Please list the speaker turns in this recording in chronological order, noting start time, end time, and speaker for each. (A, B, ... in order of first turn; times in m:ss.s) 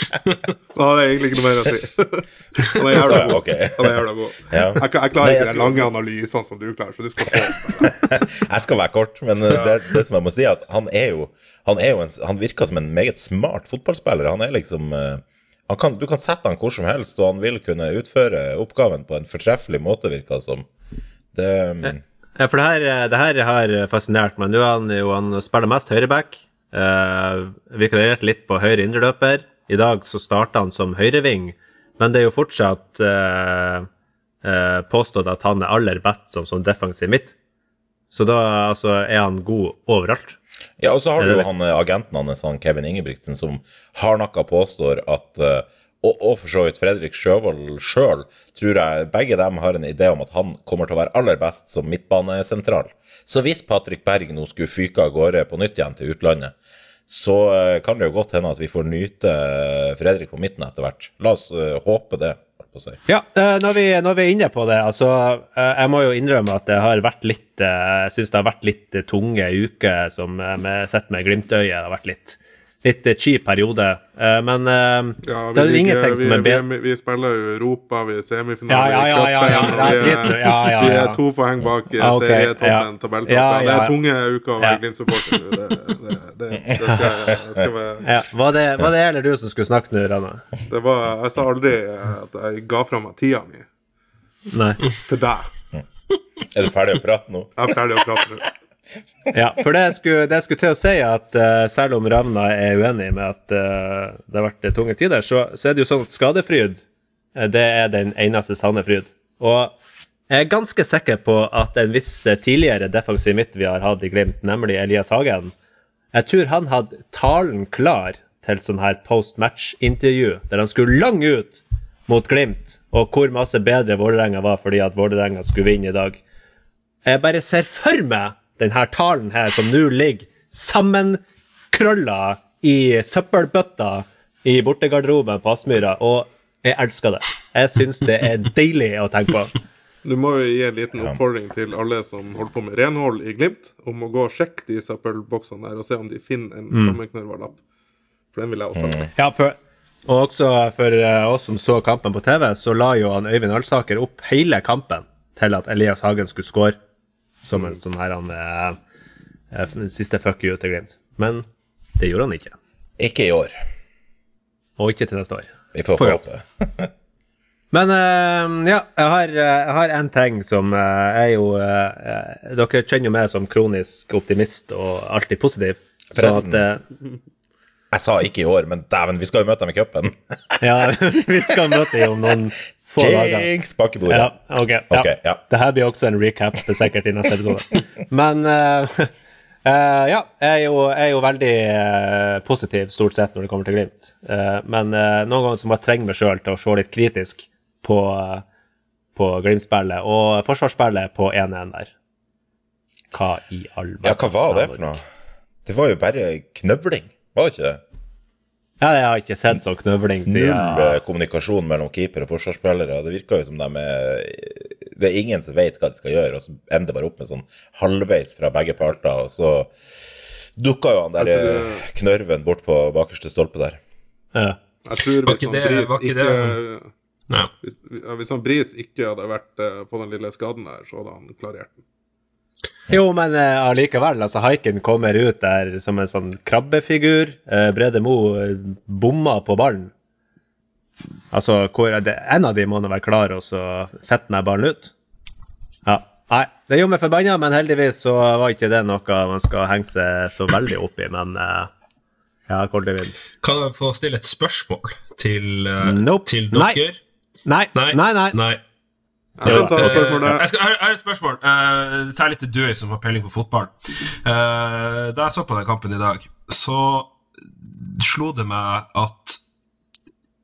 0:00.7-0:08.0 A
0:03.0-0:04.0 B
0:04.5-0:05.9 B
0:07.8-0:20.7 B
0:09.5-0:09.8 A
0:21.3-0:22.0 B
0:21.8-0:33.9 C
0:34.4-0:37.3 C
0:38.1-0:40.4 C
0:40.8-0:56.5 B
0:41.2-0:41.5 C
0:57.1-1:03.0 B
1:03.1-1:16.6 C
1:15.2-1:28.0 A
1:18.7-1:21.2 C
1:22.0-1:24.0 C
1:28.0-1:30.4 C
1:30.7-1:33.6 A
1:34.5-1:34.8 C
1:35.0-1:35.5 A
1:36.5-1:38.2 B
1:37.6-1:38.5 A
1:39.3-1:46.8 C
1:47.3-1:49.7 C
1:50.3-1:55.5 C
1:56.1-2:06.2 C
2:07.0-2:11.2 C
2:11.7-2:19.5 C
2:20.0-2:27.6 A
2:26.7-2:27.0 C
2:28.3-2:29.1 A
2:28.8-2:29.1 B
2:29.2-2:36.8 C
2:37.4-2:38.8 C
2:39.5-2:41.4 C
2:42.0-2:42.5 C
2:43.0-2:43.6 B
2:44.8-2:46.2 C
2:45.7-2:46.9 B
2:47.7-2:56.8 C
2:56.1-2:56.6 B
2:57.9-3:02.3 B
3:00.6-3:03.5 C
3:03.0-3:04.3 B
3:04.1-3:09.1 C
3:04.9-3:05.4 B
3:09.6-3:18.4 C
3:19.1-3:21.9 C
3:23.1-3:25.0 C
3:24.0-3:25.0 B
3:25.6-3:27.8 B
3:28.8-3:31.0 C
3:30.3-3:39.7 B
3:40.6-3:43.8 B
3:41.2-3:41.8 A
3:44.9-3:46.9 A
3:45.2-3:46.6 D
3:47.6-3:51.8 A
3:52.9-3:59.9 C
4:01.3-4:04.9 C
4:05.8-4:11.7 C
4:12.5-4:13.2 C
4:13.4-4:17.0 D
4:15.8-4:16.8 C
4:17.4-4:18.4 C
4:17.8-4:18.6 D
4:19.4-4:20.4 A
4:19.4-4:29.4 D
4:19.4-4:20.1 C